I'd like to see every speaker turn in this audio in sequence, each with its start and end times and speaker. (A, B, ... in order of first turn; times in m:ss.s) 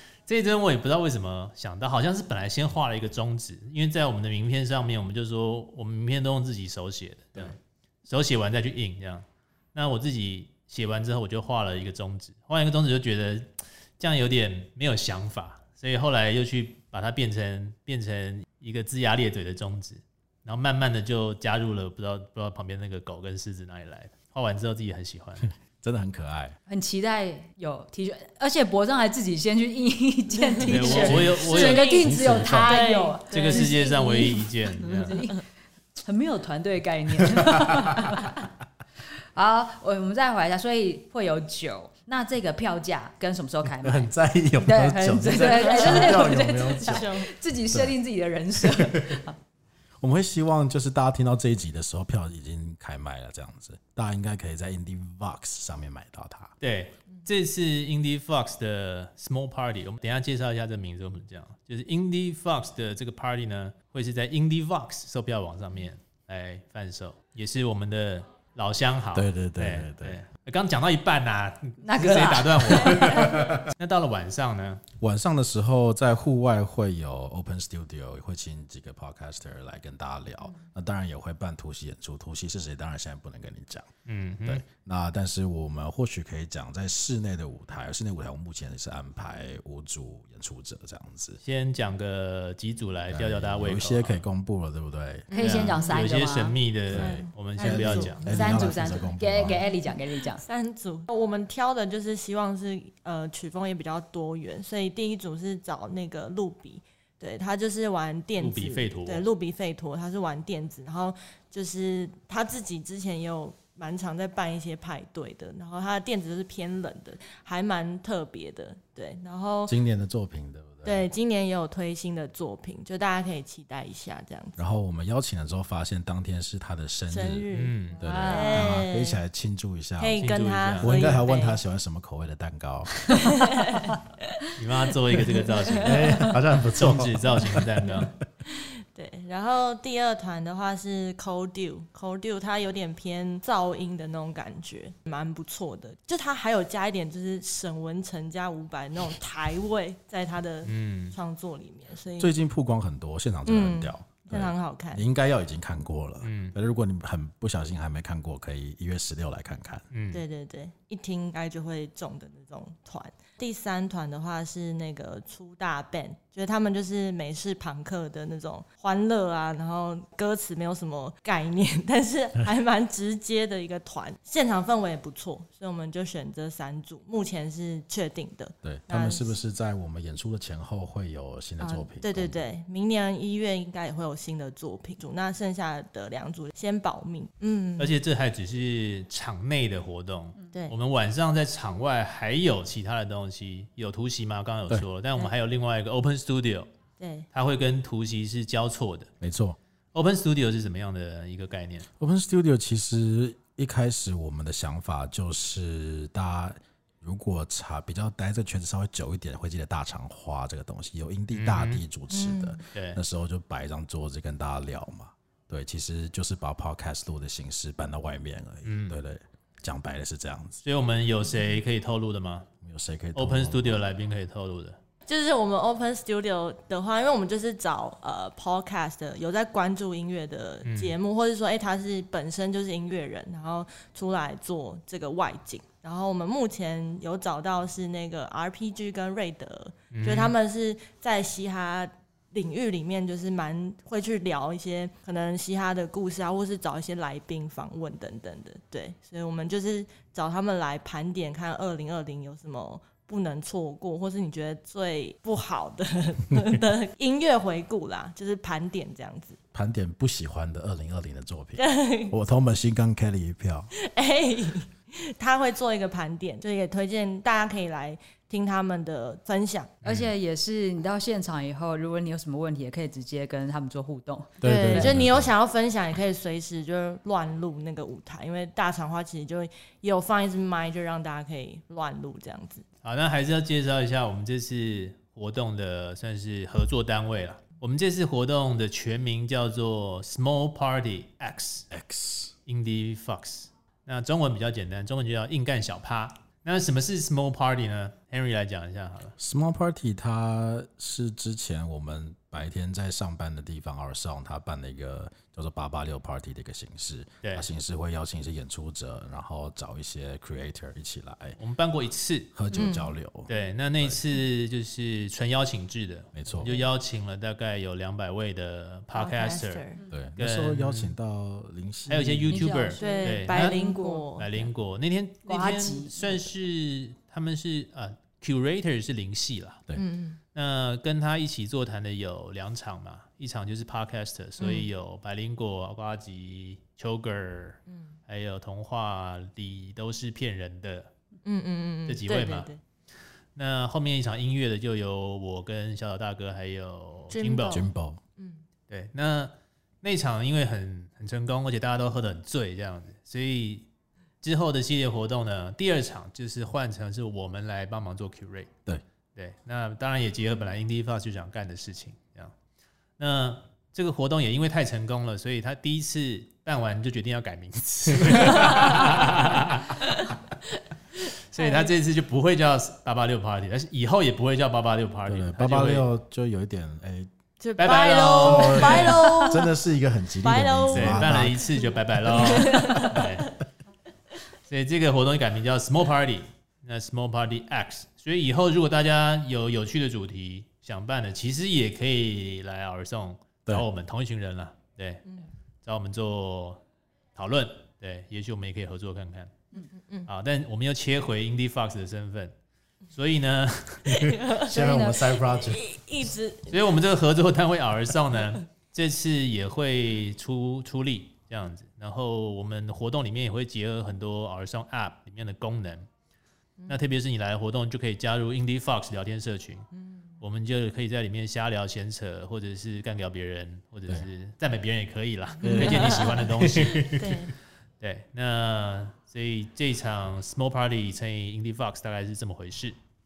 0:00.2-0:25.5 A
0:25.6-0:26.6 B
0:26.7-0:35.4 C
0:30.4-0:35.1 D
0:30.6-0:32.0 A
0:31.0-0:31.4 B
0:32.0-0:32.8 B
0:33.3-0:35.2 A
0:36.0-0:38.4 C
0:37.3-0:38.0 B
0:39.3-0:49.4 C
0:43.6-0:47.9 B
0:45.3-0:47.3 D
0:48.6-0:49.2 B
0:50.0-0:56.5 B
0:56.6-1:14.8 A
1:09.1-1:10.2 B
1:11.8-1:13.1 C
1:13.0-1:13.7 B
1:15.0-1:23.9 B
1:24.0-1:24.6 A
1:24.4-1:31.4 B
1:31.4-1:34.2 A
1:33.1-1:35.3 B
1:35.3-1:36.0 D
1:35.3-1:36.6 C
1:35.4-1:38.3 A
1:36.9-1:39.6 B
1:36.9-1:38.9 D
1:38.3-1:40.4 C
1:40.3-1:59.8 D
1:48.4-1:49.2 A
1:59.6-2:01.1 B
2:00.8-2:04.6 D
2:04.6-2:13.1 B
2:07.1-2:09.2 D
2:07.5-2:08.0 A
2:08.0-2:08.7 C
2:10.0-2:11.6 D
2:10.2-2:11.2 A
2:13.1-2:14.0 D
2:14.6-2:18.1 A
2:15.6-2:16.3 D
2:15.7-2:18.2 B
2:18.4-2:32.3 D
2:30.6-2:31.2 A
2:32.2-2:39.8 B
2:33.4-2:35.0 D
2:36.2-2:36.5 A
2:39.9-2:40.2 A
2:40.1-2:59.3 D
2:58.6-3:02.4 B
3:01.6-3:08.0 D
3:07.8-3:16.7 A
3:17.0-3:17.2 D
3:17.3-3:19.1 A
3:19.2-3:19.6 B
3:19.9-3:21.9 A
3:22.0-3:40.6 B
3:31.3-3:31.8 A
3:32.1-3:32.6 D
3:32.7-3:33.0 A
3:38.6-3:39.0 A
3:40.6-3:42.5 A
3:42.6-3:43.8 B
3:43.1-3:44.8 A
3:45.1-4:19.4 D
3:50.6-3:50.9 A
3:59.9-4:00.3 A
4:19.5-4:23.7 B
4:21.6-4:22.1 D
4:23.8-4:29.7 D
4:29.8-4:30.1 A
4:29.8-4:35.0 C
4:34.4-4:35.3 B
4:34.4-4:42.6 D
4:42.8-4:51.7 A
4:51.7-4:52.3 B
4:52.5-4:59.1 A
4:59.2-5:11.4 B
5:07.2-5:07.5 A
5:11.4-5:12.3 A
5:12.3-5:13.3 B
5:12.5-5:12.9 D
5:13.3-5:19.6 A
5:16.1-5:16.6 B
5:18.9-5:19.8 D
5:19.9-5:22.5 B
5:20.2-5:20.9 A
5:21.9-5:23.6 A
5:22.3-5:24.4 C
5:22.8-5:24.3 D
5:24.2-5:29.6 A
5:25.3-5:26.2 C
5:29.8-5:30.2 D
5:30.3-5:40.9 A
5:34.4-5:34.7 D
5:41.2-5:42.6 D
5:41.9-5:42.5 A
5:43.3-5:47.6 A
5:47.1-5:48.4 D
5:47.5-5:48.0 B
5:48.7-5:53.7 A
5:54.2-5:58.5 A
5:59.1-6:02.3 A
6:03.0-6:10.1 A
6:08.4-6:08.8 D
6:11.0-6:15.9 A
6:11.4-6:11.7 D
6:15.1-6:17.1 B
6:17.4-6:19.5 D
6:17.6-6:19.2 A
6:18.2-6:21.5 B
6:20.2-6:23.3 D
6:20.7-6:23.4 A
6:22.1-6:23.0 B
6:24.5-6:35.0 A
6:35.6-6:36.6 A
6:37.1-6:39.3 A
6:39.6-6:40.1 D
6:40.0-6:42.3 A
6:42.9-6:44.1 A
6:43.9-6:44.6 D
6:44.5-6:45.2 C
6:44.5-6:45.6 B
6:45.3-6:46.6 D
6:46.5-6:55.9 A
6:56.7-6:59.7 A
6:59.7-7:00.0 D
7:00.2-7:07.2 A
7:05.4-7:06.3 D
7:05.4-7:07.2 B
7:06.9-7:07.3 D
7:07.8-7:12.8 A